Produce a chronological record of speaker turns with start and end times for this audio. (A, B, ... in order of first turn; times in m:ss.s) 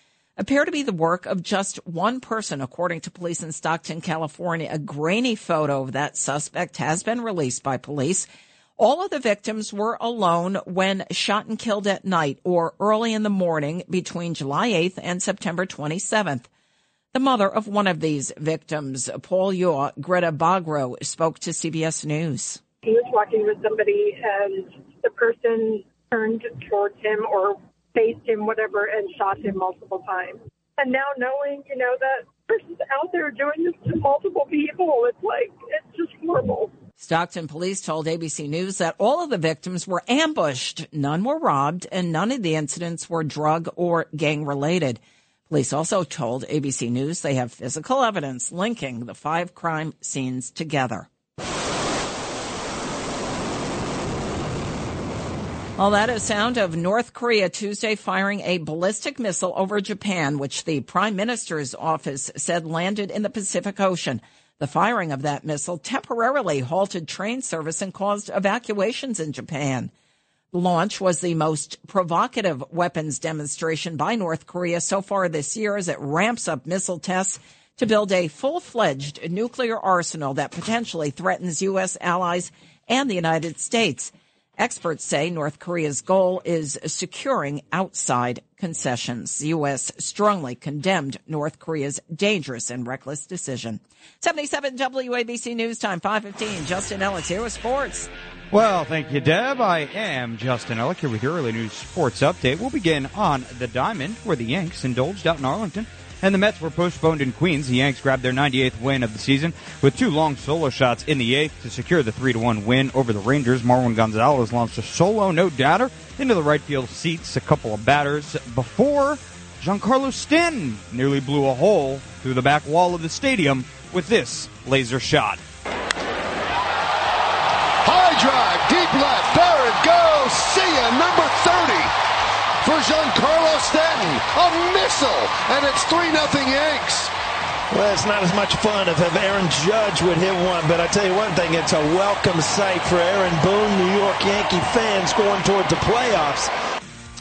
0:00.4-0:16.5 A
0:17.1-0:22.6 A
0:22.8-0:36.7 B
0:37.0-0:51.1 A
0:55.8-1:09.9 A
1:10.5-1:38.1 A
1:38.5-2:05.4 C
2:07.9-2:11.9 D
2:12.6-2:17.1 D
2:17.7-2:26.5 E